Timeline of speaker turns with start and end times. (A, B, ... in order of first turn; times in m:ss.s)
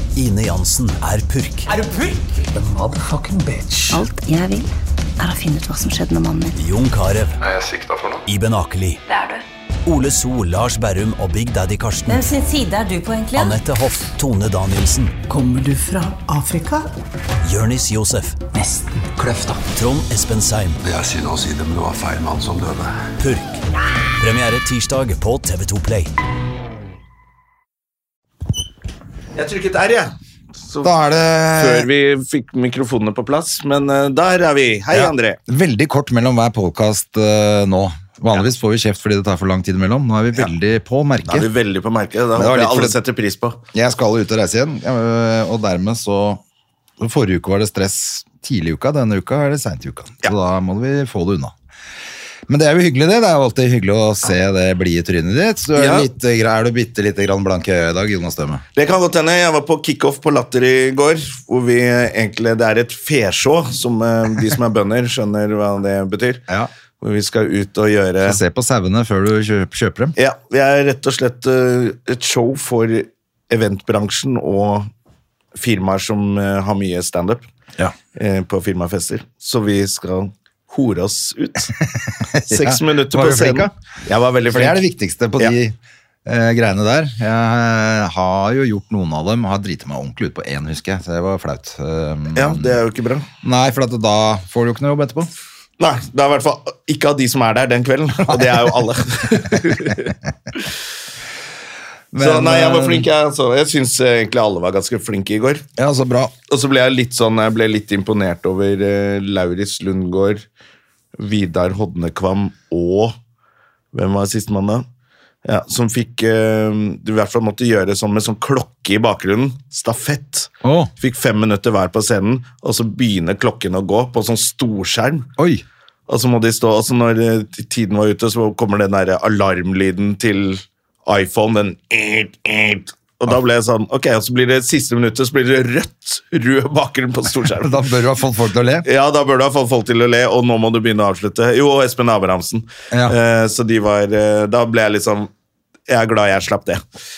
0:00.2-0:01.7 A
0:02.5-0:04.1 B
0:03.9-0:06.6 C
0:06.6-0:07.4 A
0:07.4-0:08.2 D
0:08.3-0:09.0 A
0:09.1-0:09.4 E
0:09.8-0:12.3 A
0:12.1-0:13.6 E
0:13.4-0:15.2 A
0:15.3-0:16.9 B
0:17.4-0:18.4 A
0:18.5-0:19.7 B
0:19.7-0:20.8 A
0:20.8-0:23.0 D
0:23.2-0:23.6 A
0:24.2-0:26.1 A
0:29.4-0:30.9 F
0:30.8-0:31.9 G
0:31.6-0:35.4 F
0:34.9-0:41.5 G
0:41.3-0:43.6 F
0:42.3-0:43.0 G
0:43.7-0:46.4 G
0:47.0-0:51.5 G
0:52.5-0:58.6 G
0:55.8-0:56.1 F
0:58.8-1:06.4 F
1:07.0-1:08.4 F
1:08.2-1:10.2 G
1:10.2-1:14.9 F
1:15.6-1:17.4 F
1:18.2-1:21.7 F
1:21.8-1:23.7 G
1:22.5-1:24.8 F
1:24.5-1:32.8 G
1:32.3-1:33.3 F
1:33.4-1:35.3 G
1:35.8-1:40.7 F
1:38.2-1:40.1 G
1:42.1-1:43.1 G
1:42.2-1:45.7 F
1:45.8-1:46.3 G
1:46.5-1:50.4 F
1:51.2-1:53.2 F
1:53.9-1:54.8 F
1:55.4-2:05.3 F
2:00.6-2:00.9 G
2:05.4-2:05.6 G
2:06.1-2:17.8 F
2:17.4-2:18.9 G
2:18.8-2:25.3 F
2:22.9-2:23.2 G
2:25.9-2:26.8 F